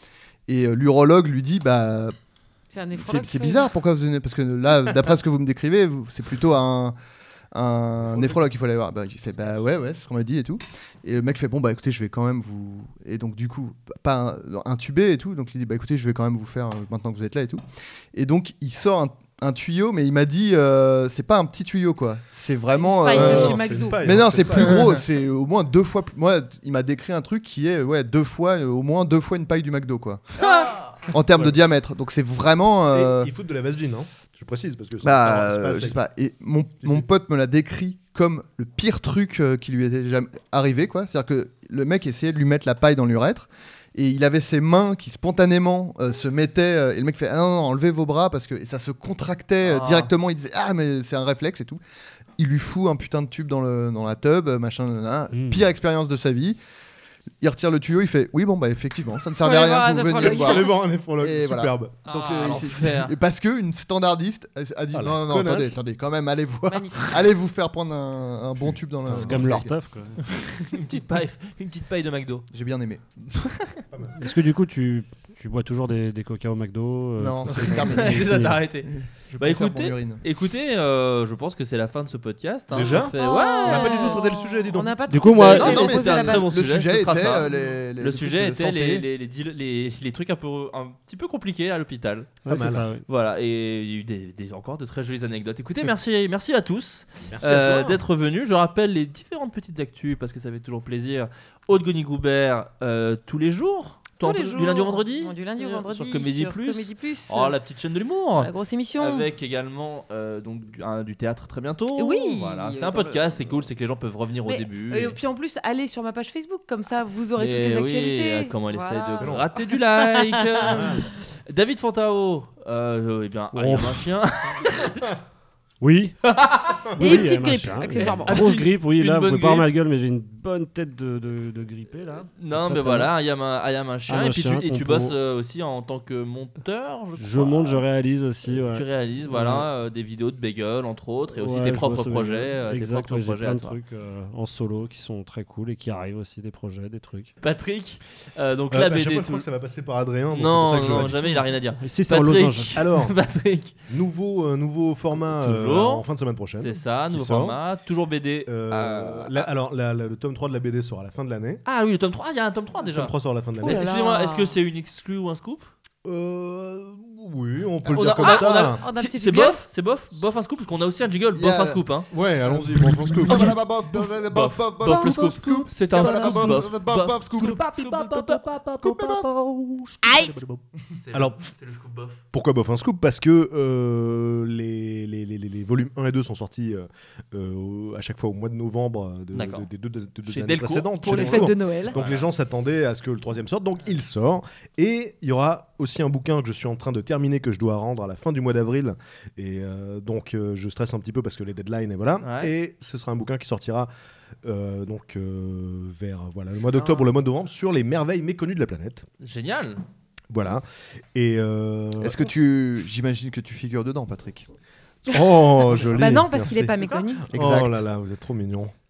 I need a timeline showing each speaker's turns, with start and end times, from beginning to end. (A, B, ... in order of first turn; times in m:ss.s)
0:00.5-0:02.1 A
0:02.7-0:03.7 B
0:03.0-0:06.9 A
0:07.5-0:17.6 A
0:18.1-0:30.3 A
0:22.7-0:24.0 B
0:23.1-0:24.9 C
0:23.3-0:24.0 D
0:30.4-0:30.8 B
0:30.5-0:30.9 E
0:31.1-0:33.3 A
0:32.9-0:36.0 C
0:35.0-0:51.8 A
0:49.6-0:50.1 E
0:52.4-0:56.6 A
0:55.3-0:55.6 D
0:57.4-1:09.8 A
0:59.4-1:00.7 B
1:00.2-1:01.9 C
1:02.1-1:03.1 E
1:04.9-1:05.8 C
1:06.7-1:07.1 B
1:08.6-1:09.5 C
1:09.1-1:10.3 D
1:10.4-1:12.5 E
1:12.5-1:13.0 A
1:13.3-1:13.8 E
1:13.9-1:14.2 C
1:14.2-1:18.6 D
1:17.2-1:20.2 A
1:17.5-1:24.2 E
1:22.7-1:25.0 C
1:22.8-1:26.5 B
1:25.1-1:25.8 D
1:25.3-1:32.4 E
1:25.5-1:29.0 A
1:32.4-1:33.0 D
1:32.5-1:32.9 C
1:33.1-1:55.2 E
1:37.2-1:38.0 C
1:44.2-1:47.6 B
1:48.4-1:49.3 B
1:52.0-1:53.6 B
1:54.4-2:00.8 B
1:57.4-2:05.1 E
1:59.2-1:59.5 C
2:00.7-2:01.0 C
2:03.6-2:03.9 D
2:03.6-2:03.9 C
2:05.8-2:06.1 D
2:06.2-2:06.9 E
2:07.0-2:13.1 D
2:07.0-2:08.4 B
2:07.9-2:09.7 E
2:12.3-2:17.8 E
2:14.1-2:15.2 D
2:17.2-2:19.6 D
2:18.5-2:23.8 E
2:21.3-2:27.3 D
2:27.4-2:29.4 E
2:28.7-2:31.5 C
2:30.3-2:33.7 E
2:31.8-2:32.8 D
2:32.7-2:33.2 C
2:33.9-2:37.6 C
2:35.2-2:36.0 E
2:36.6-2:39.5 E
2:38.4-2:41.6 C
2:41.6-2:45.7 E
2:42.8-2:43.9 C
2:43.6-2:44.6 B
2:46.0-2:48.8 C
2:47.9-2:52.1 E
2:48.2-2:49.6 B
2:51.4-2:51.8 A
2:52.1-2:53.6 C
2:53.1-2:57.6 A
2:53.3-2:53.5 E
2:54.1-2:58.4 E
2:54.8-2:56.7 C
2:57.3-3:01.4 C
2:58.8-2:59.3 A
3:00.9-3:02.2 E
3:02.3-3:23.9 C
3:09.3-3:09.6 E
3:10.3-3:12.3 E
3:11.0-3:12.0 B
3:22.2-3:22.5 E
3:24.4-3:29.1 C
3:29.2-3:29.8 E
3:30.3-3:32.3 C
3:32.0-3:34.5 A
3:35.1-3:36.8 C
3:35.1-3:37.3 B
3:37.3-3:38.7 C
3:37.3-3:37.8 A